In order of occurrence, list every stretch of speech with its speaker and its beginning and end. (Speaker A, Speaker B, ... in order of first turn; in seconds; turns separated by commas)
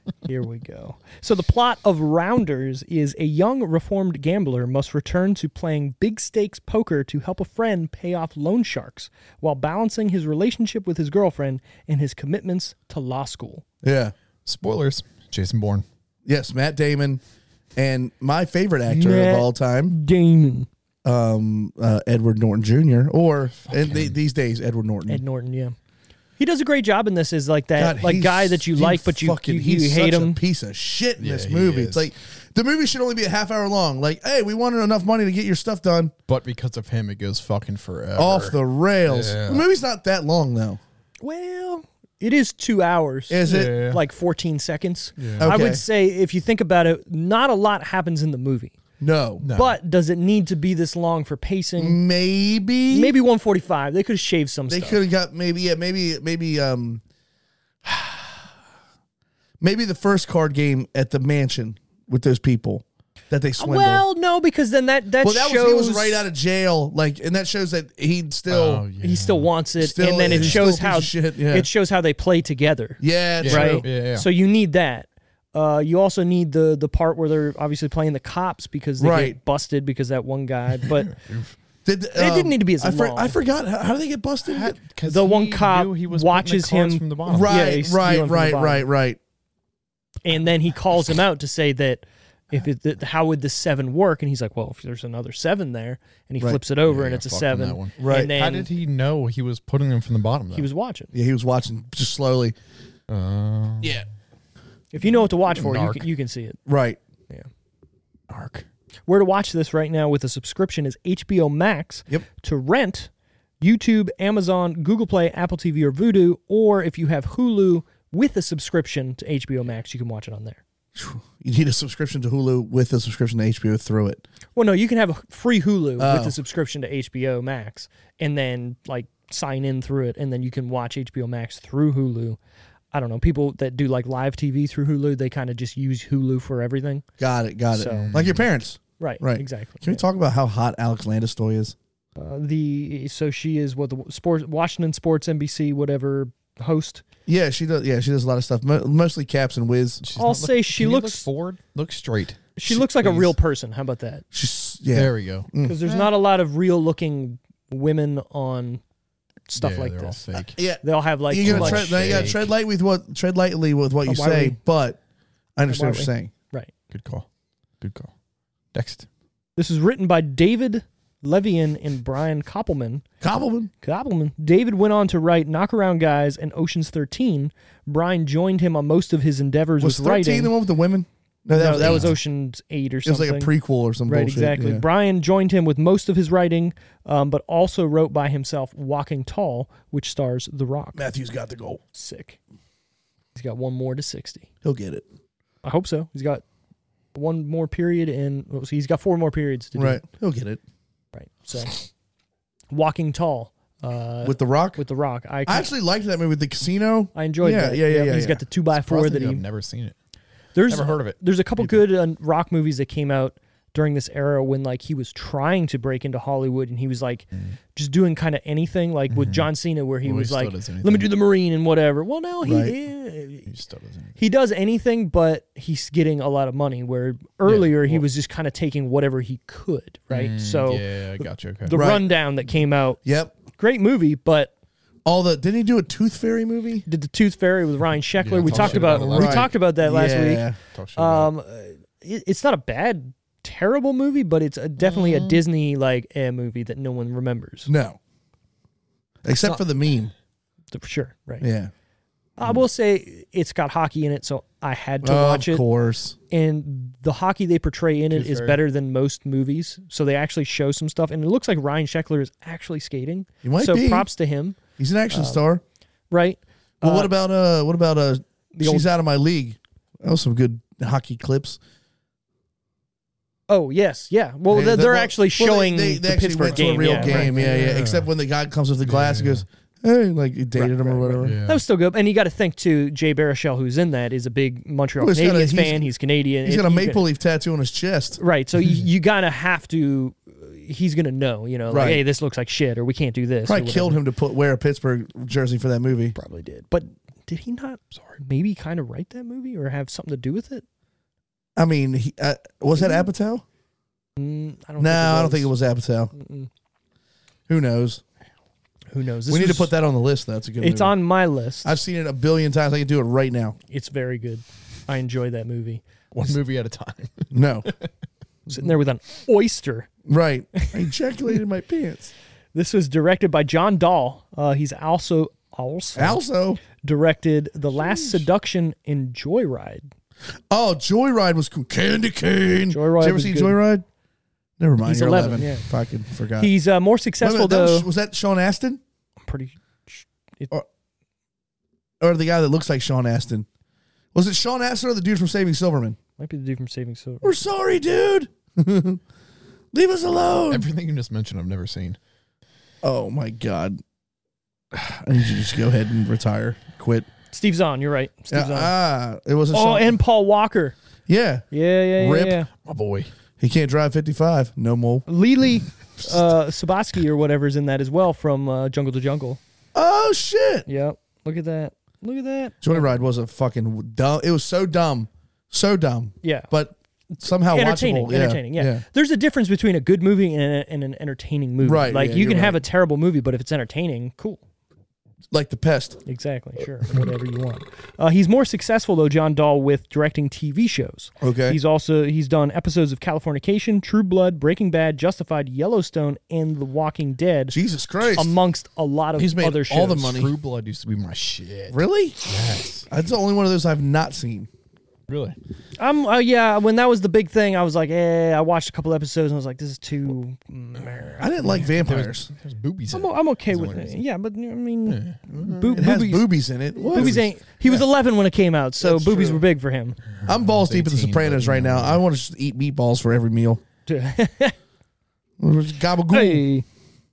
Speaker A: 0.2-13.6, Speaker B: 13.8-14.1, Speaker C: 14.4-15.8, Speaker B: 16.3-17.2, Speaker B: 17.8-19.9, Speaker A: 18.9-20.7, Speaker B: 21.1-25.2, Speaker C: 23.6-24.1, Speaker A: 25.1-25.8, Speaker A: 26.4-30.4, Speaker B: 27.8-36.1, Speaker C: 31.2-32.1, Speaker C: 36.3-39.6, Speaker B: 38.2-40.8, Speaker A: 41.2-48.8, Speaker B: 43.3-43.8, Speaker C: 43.5-44.0, Speaker C: 45.2-45.5, Speaker B: 45.4-45.8, Speaker B: 49.0-49.5, Speaker C: 49.4-49.8, Speaker A: 49.5-52.0, Speaker B: 51.8-53.1, Speaker A: 52.9-55.0, Speaker B: 54.7-57.0, Speaker B: 57.8-58.4, Speaker B: 59.6-64.0, Speaker A: 63.6-66.3, Speaker B: 65.2-68.8, Speaker C: 68.5-69.5, Speaker A: 69.0-81.2, Speaker B: 69.8-71.7, Speaker C: 70.3-70.7, Speaker B: 73.0-73.8, Speaker C: 73.4-74.3, Speaker B: 79.0-79.4, Speaker C: 81.0-81.5, Speaker B: 81.8-84.8, Speaker A: 82.2-83.3, Speaker C: 84.5-87.6, Speaker A: 85.0-88.9, Speaker B: 87.3-89.2, Speaker A: 90.2-98.7, Speaker C: 96.8-100.7, Speaker B: 98.0-98.3, Speaker A: 100.5-101.1, Speaker B: 101.1-102.5, Speaker C: 103.1-104.0, Speaker B: 103.8-104.1, Speaker A: 104.9-106.6, Speaker C: 105.5-106.1, Speaker B: 106.7-107.0, Speaker C: 108.3-108.7, Speaker A: 109.1-120.6, Speaker B: 121.0-124.2, Speaker A: 124.6-132.4, Speaker B: 126.0-126.3, Speaker A: 132.9-137.1, Speaker B: 137.2-141.8, Speaker A: 137.7-138.1, Speaker C: 138.0-138.4, Speaker A: 139.0-140.0, Speaker A: 142.2-147.0, Speaker B: 147.3-150.0, Speaker C: 150.0-153.3, Speaker A: 150.2-151.2, Speaker A: 152.6-154.2, Speaker B: 154.3-155.8, Speaker C: 154.9-156.1, Speaker A: 155.6-158.8, Speaker A: 159.5-162.4, Speaker C: 159.6-160.6, Speaker B: 160.6-165.0, Speaker C: 161.4-162.4, Speaker A: 164.1-164.6, Speaker B: 165.6-166.3, Speaker A: 165.7-166.7, Speaker C: 166.9-167.3, Speaker C: 167.8-168.1, Speaker C: 168.7-169.1, Speaker A: 169.6-173.1, Speaker B: 173.2-173.7, Speaker A: 173.8-180.5, Speaker B: 179.8-182.2, Speaker A: 181.5-183.5, Speaker C: 181.8-182.2, Speaker B: 183.1-184.8, Speaker A: 184.1-191.0, Speaker B: 190.9-191.8, Speaker A: 191.9-192.4, Speaker A: 193.3-194.5, Speaker B: 194.6-195.1, Speaker A: 195.6-196.4, Speaker A: 197.1-200.0, Speaker B: 199.8-200.6, Speaker A: 201.1-201.9, Speaker A: 202.7-205.7, Speaker B: 204.2-204.8, Speaker B: 205.5-208.4, Speaker A: 207.2-209.4, Speaker C: 208.8-210.0, Speaker A: 210.6-223.5, Speaker C: 210.7-211.9, Speaker C: 219.1-219.5, Speaker C: 220.0-221.1, Speaker B: 222.4-222.7, Speaker C: 223.4-224.2, Speaker A: 224.2-233.0, Speaker C: 227.5-228.1, Speaker C: 230.1-231.8, Speaker B: 231.7-232.2, Speaker B: 233.1-233.3, Speaker A: 233.6-234.5, Speaker B: 235.1-236.9, Speaker A: 236.9-247.7, Speaker C: 238.2-239.6, Speaker B: 238.4-240.6, Speaker C: 240.7-241.3, Speaker C: 244.8-245.4, Speaker B: 247.7-248.0, Speaker B: 249.2-250.1, Speaker A: 250.7-251.4, Speaker B: 251.4-251.7, Speaker A: 252.4-255.6, Speaker B: 255.0-256.2, Speaker A: 256.3-264.6, Speaker C: 258.1-258.6, Speaker B: 263.4-264.1, Speaker B: 264.8-265.6, Speaker A: 265.1-265.4, Speaker A: 266.1-267.1, Speaker B: 266.8-271.6, Speaker A: 268.5-268.9, Speaker A: 273.5-277.8, Speaker B: 274.5-281.4, Speaker C: 276.7-278.1, Speaker C: 278.9-279.4, Speaker A: 280.6-287.0, Speaker C: 281.2-281.6, Speaker B: 285.0-285.8, Speaker B: 286.4-288.2, Speaker A: 288.2-294.0, Speaker B: 291.7-292.0, Speaker B: 293.5-296.2, Speaker A: 296.2-300.6, Speaker B: 301.6-303.4, Speaker A: 304.2-305.5, Speaker B: 304.8-306.1, Speaker A: 306.1-306.5, Speaker B: 307.5-308.0, Speaker A: 308.9-309.7, Speaker B: 309.3-311.0, Speaker A: 310.6-311.8, Speaker B: 311.6-313.6, Speaker A: 313.7-315.8, Speaker C: 316.1-317.9, Speaker B: 317.3-317.7, Speaker A: 318.5-319.9, Speaker B: 320.1-322.1, Speaker A: 322.5-329.9, Speaker B: 325.9-326.6, Speaker B: 327.8-328.2, Speaker B: 330.5-333.9, Speaker A: 332.7-333.6, Speaker B: 334.6-336.5, Speaker A: 334.8-335.7, Speaker A: 336.4-337.9, Speaker B: 337.2-338.8, Speaker A: 339.2-340.5, Speaker B: 342.0-343.5, Speaker B: 344.1-346.0, Speaker A: 346.2-347.3, Speaker B: 347.2-349.0, Speaker B: 349.7-350.7, Speaker C: 350.5-352.0, Speaker B: 352.8-353.8, Speaker B: 354.7-357.1, Speaker A: 357.3-358.7, Speaker B: 358.3-360.0, Speaker A: 359.5-360.8, Speaker B: 361.1-362.4, Speaker A: 361.5-362.5, Speaker C: 362.6-363.1, Speaker B: 363.4-365.1, Speaker A: 365.1-369.4, Speaker B: 369.7-370.7, Speaker A: 370.7-372.9, Speaker B: 372.6-378.8, Speaker A: 376.2-376.5, Speaker A: 377.5-384.4, Speaker B: 381.6-382.6, Speaker B: 385.3-386.0, Speaker A: 386.1-397.6, Speaker B: 391.2-391.6, Speaker B: 397.5-398.4, Speaker A: 398.1-400.1, Speaker B: 399.2-400.3, Speaker C: 400.0-402.9, Speaker B: 401.7-402.2, Speaker B: 402.9-404.5, Speaker C: 405.1-405.4, Speaker A: 405.8-411.7, Speaker B: 411.2-412.3, Speaker C: 411.7-414.0, Speaker A: 412.9-416.3, Speaker C: 414.9-415.9, Speaker B: 415.8-417.2, Speaker A: 416.8-420.0, Speaker C: 416.9-417.3, Speaker B: 418.8-419.4, Speaker C: 420.2-422.0, Speaker B: 420.2-423.6, Speaker A: 423.9-424.6, Speaker B: 425.4-426.4, Speaker A: 426.1-426.6